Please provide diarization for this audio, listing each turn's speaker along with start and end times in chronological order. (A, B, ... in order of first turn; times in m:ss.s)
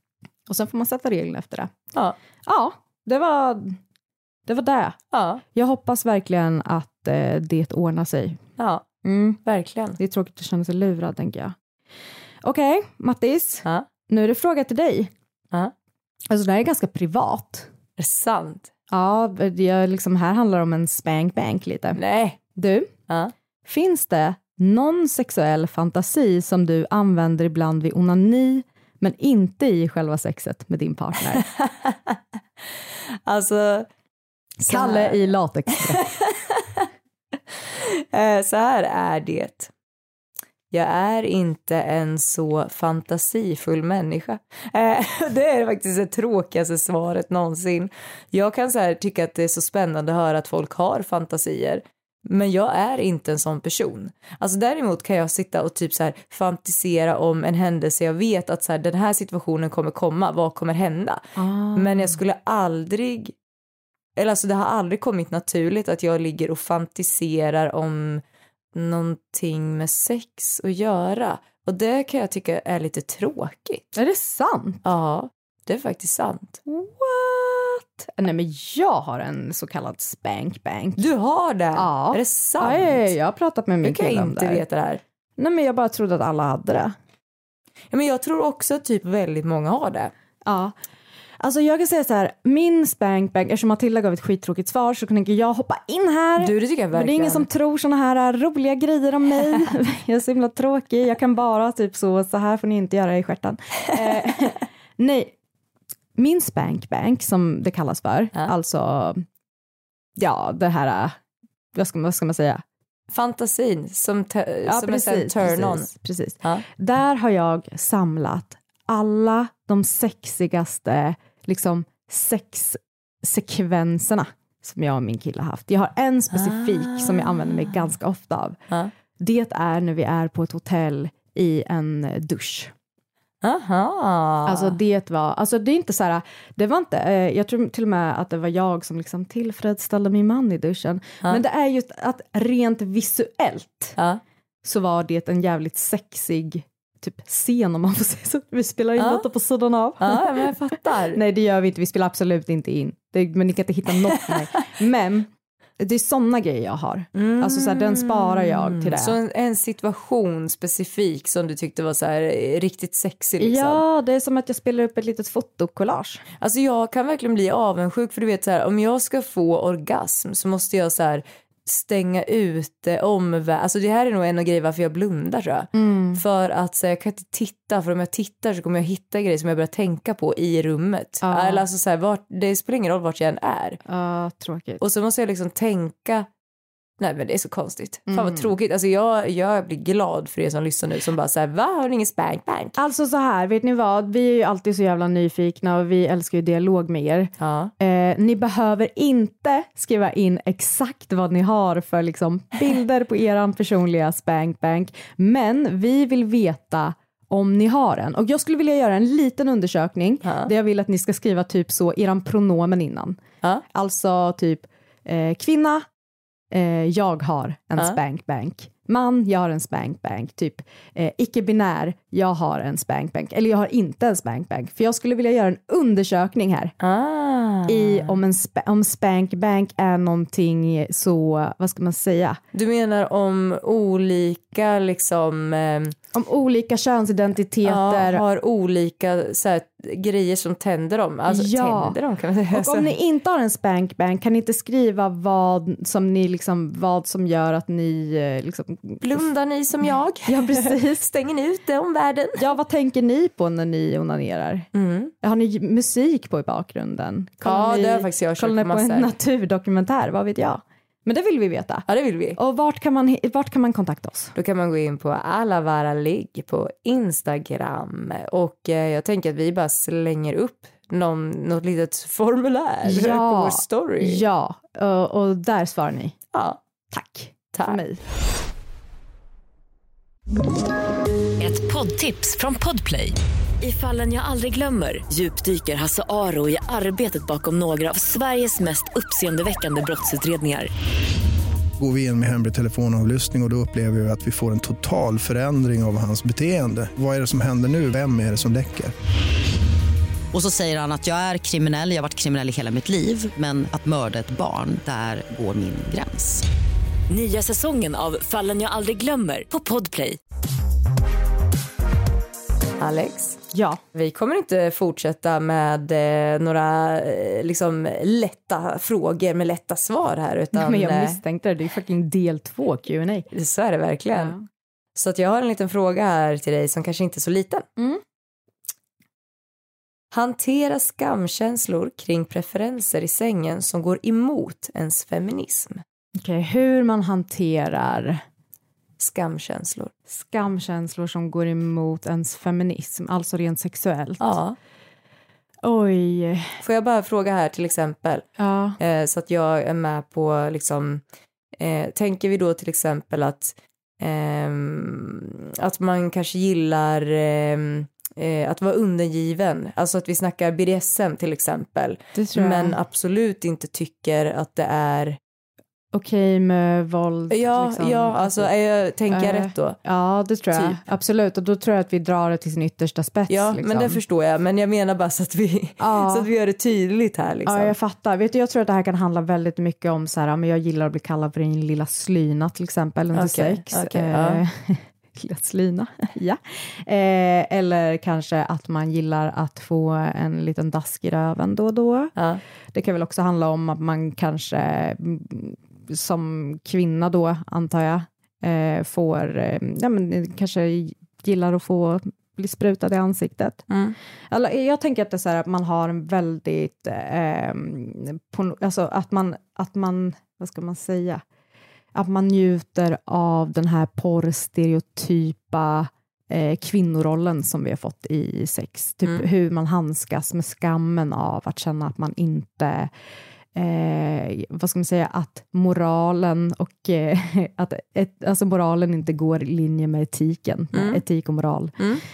0:00.5-0:01.7 A
0:02.4-0:03.8 A
0:04.5-0:05.0 A
0:05.1-0:05.4 B
0:05.5-0:08.4 A
0:08.6-0:08.8 B
0:09.0-0:09.4 A
0:09.4-0:10.0 B
0:10.0-0:11.5 A
0:12.4-0:15.1 A
0:16.3-0:17.7 A
0:18.0-0:18.7 B
0:18.9-0:22.0 A
0:21.9-0:22.4 B
0:22.5-0:22.9 A
0:23.6-0:31.5 A
0:31.3-0:32.2 B
0:33.2-0:33.9 B
0:34.6-0:35.2 B
0:34.6-0:36.1 A
0:35.9-0:36.8 B
0:37.7-0:39.7 B
0:40.7-1:03.3 B
1:01.4-1:02.2 A
1:04.2-1:08.2 B
1:08.7-1:14.0 B
1:13.9-1:14.8 A
1:14.8-1:16.6 B
1:16.7-1:21.0 A
1:21.0-1:23.1 B
1:21.7-1:24.6 A
1:23.8-1:25.0 B
1:25.4-1:26.9 A
1:27.9-1:30.1 B
1:30.4-1:30.7 A
1:31.4-1:45.3 A
1:36.4-1:37.5 B
1:46.2-1:49.2 A
1:50.2-1:51.2 A
1:51.7-1:52.6 A
1:53.1-1:55.9 B
1:54.6-2:08.6 A
2:06.3-2:07.7 B
2:09.2-2:12.7 A
2:13.4-2:14.8 B
2:14.4-2:24.0 A
2:24.6-2:39.2 A
2:29.0-2:29.2 B
2:30.0-2:31.2 B
2:37.1-2:43.8 B
2:43.4-2:46.2 A
2:46.4-3:03.8 B
2:55.7-2:56.2 A
3:01.2-3:01.6 A
3:03.8-3:04.8 A
3:04.8-3:06.3 B
3:07.0-3:12.8 B
3:08.1-3:08.5 A
3:12.8-3:33.2 A
3:17.4-3:17.7 B
3:30.2-3:30.5 B
3:33.7-3:35.8 A
3:36.5-3:46.7 A
3:46.8-3:48.2 B
3:47.7-3:52.4 A
3:52.5-3:55.9 B
3:56.1-3:58.2 A
3:57.6-4:02.9 B
4:01.3-4:02.0 A
4:02.5-4:09.1 A
4:09.0-4:12.5 B
4:10.2-4:11.0 A
4:12.4-4:14.7 A
4:14.7-4:15.1 B
4:15.2-4:24.3 A
4:17.4-4:19.1 B
4:21.9-4:22.4 B
4:24.3-4:34.2 B
4:32.8-4:36.1 A
4:36.3-4:36.6 B
4:36.9-4:38.0 A
4:37.5-4:37.8 B
4:41.4-4:50.7 C
4:51.8-4:58.9 D
5:00.3-5:06.4 E
5:07.1-5:10.2 C
5:12.8-5:21.2 B
5:13.5-5:13.8 A
5:20.5-5:23.3 A
5:23.3-5:24.4 B
5:24.1-5:24.4 A
5:24.9-5:27.6 B
5:27.8-5:28.0 A
5:30.1-5:35.8 B
5:36.2-5:38.2 A
5:39.0-5:39.9 B
5:40.1-5:44.3 A
5:44.2-5:44.6 B
5:45.6-5:46.6 A
5:46.6-5:48.3 B
5:48.4-5:48.8 A
5:48.8-5:51.0 B
5:51.6-6:05.2 B
6:02.1-6:02.8 A
6:05.9-6:08.5 A
6:07.3-6:09.8 B
6:09.1-6:14.0 A
6:10.5-6:10.8 B
6:13.3-6:17.7 B
6:15.8-6:16.3 A
6:17.4-6:32.1 A
6:23.1-6:24.4 B
6:32.2-6:32.4 B
6:32.7-6:43.6 A
6:43.7-6:44.0 B
6:44.3-6:51.2 A
6:51.9-7:02.9 A
7:03.5-7:11.8 A
7:10.7-7:11.0 B